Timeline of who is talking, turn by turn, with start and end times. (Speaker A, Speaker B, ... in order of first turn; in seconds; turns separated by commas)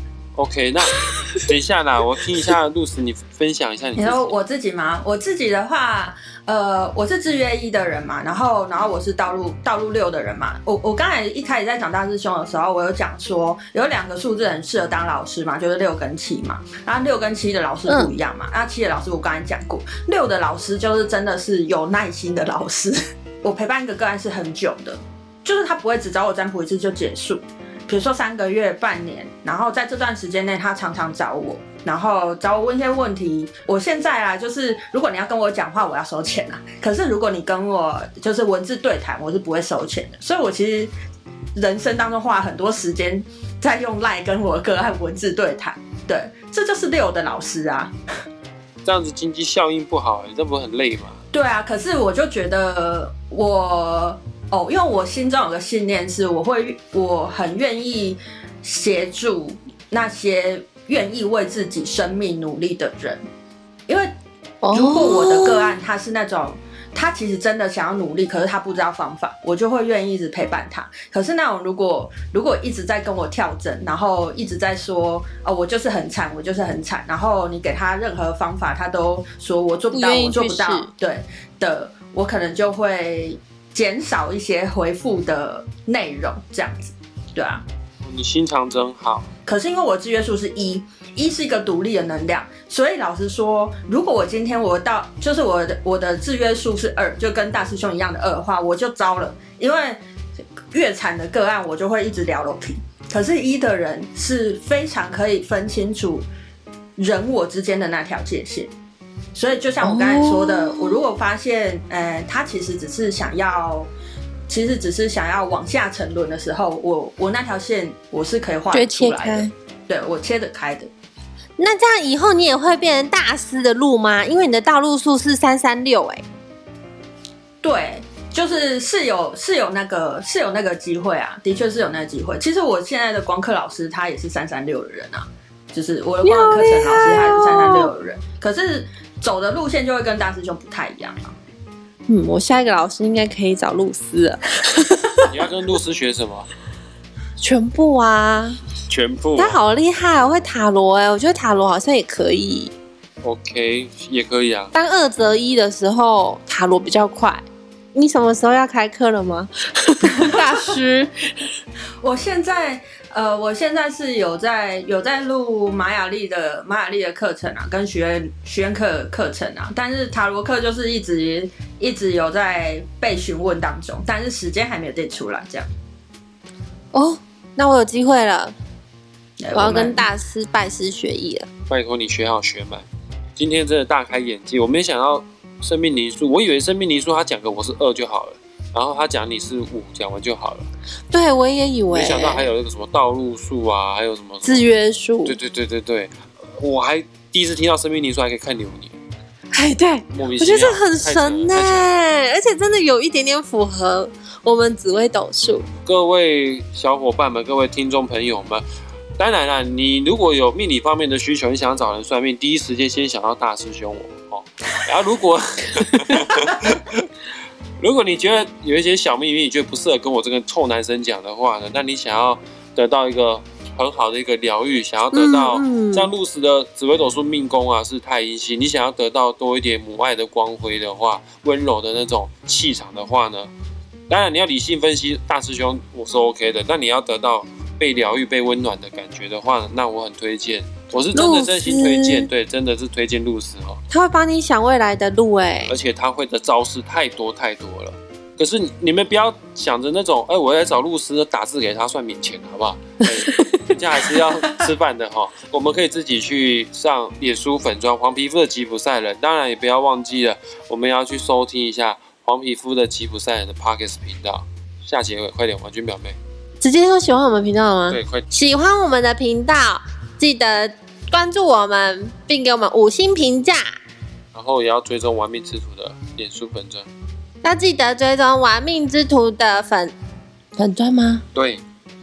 Speaker A: 0.4-4.3, Speaker B: 4.0-40.9, Speaker B: 41.5-47.9, Speaker A: 48.9-51.2, Speaker B: 51.3-63.2, Speaker C: 64.6-65.8, Speaker B: 64.7-87.7, Speaker C: 79.9-80.9, Speaker A: 88.0-89.3, Speaker B: 89.5-100.0, Speaker B: 100.7-106.3, Speaker B: 107.0-108.7, Speaker B: 109.3-113.9, Speaker C: 109.8-111.0, Speaker B: 114.5-120.9, Speaker C: 118.7-119.5, Speaker C: 121.6-126.2, Speaker B: 127.6-141.4, Speaker C: 136.2-137.9, Speaker C: 142.1-145.1, Speaker A: 145.2-146.5, Speaker C: 147.4-148.6, Speaker A: 148.9-149.6, Speaker C: 149.4-152.7, Speaker A: 153.2-154.7, Speaker C: 154.7-157.4, Speaker C: 157.9-161.3, Speaker B: 162.0-175.7, Speaker C: 176.9-178.5, Speaker B: 179.4-180.1, Speaker C: 179.5-181.5, Speaker A: 181.7-182.8, Speaker A: 183.4-190.7, Speaker C: 191.1-192.4, Speaker A: 191.9-194.7, Speaker C: 194.4-195.4, Speaker A: 195.3-199.0, Speaker C: 199.5-205.7, Speaker A: 200.1-201.9, Speaker A: 205.8-208.6, Speaker A: 209.2-217.1, Speaker A: 217.8-233.5, Speaker C: 225.1-226.1, Speaker A: 234.1-243.8, Speaker C: 241.1-242.3, Speaker C: 243.9-245.8, Speaker A: 245.7-266.2, Speaker C: 253.3-253.6, Speaker C: 266.6-273.7, Speaker A: 267.9-268.3, Speaker A: 274.3-276.9, Speaker C: 277.4-279.9, Speaker C: 280.6-281.2, Speaker A: 281.3-281.6